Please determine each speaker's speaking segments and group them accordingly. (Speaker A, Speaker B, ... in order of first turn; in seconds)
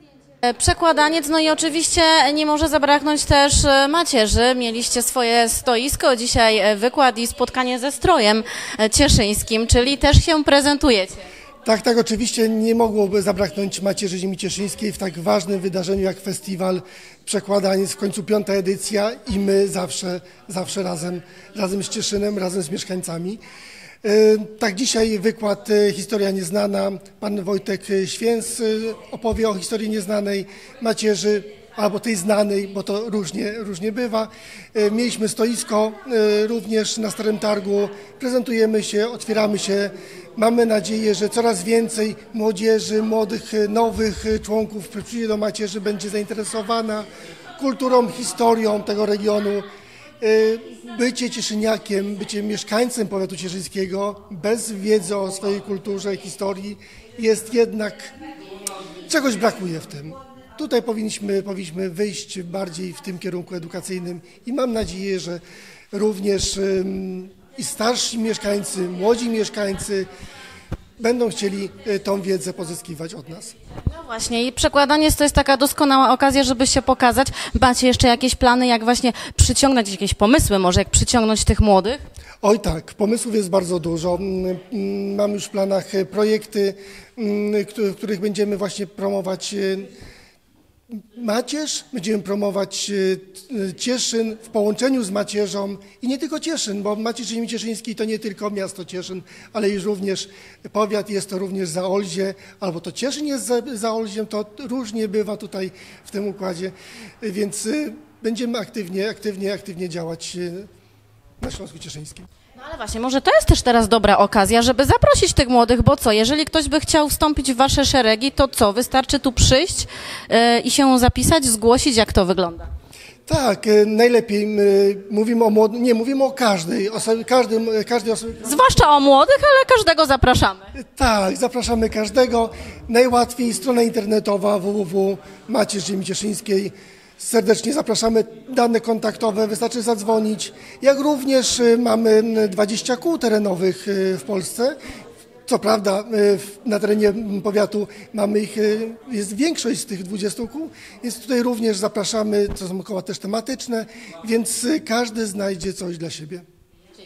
Speaker A: 0.5-11.2, 73.9-82.0, 112.6-122.7, 128.4-130.7
Speaker B: 11.6-23.4, 24.0-49.7, 50.2-58.1, 59.1-65.4, 65.9-70.1, 71.0-73.5, 82.4-89.9, 90.9-110.7, 111.4-112.3, 123.3-128.5, 130.8-144.8, 145.5-156.4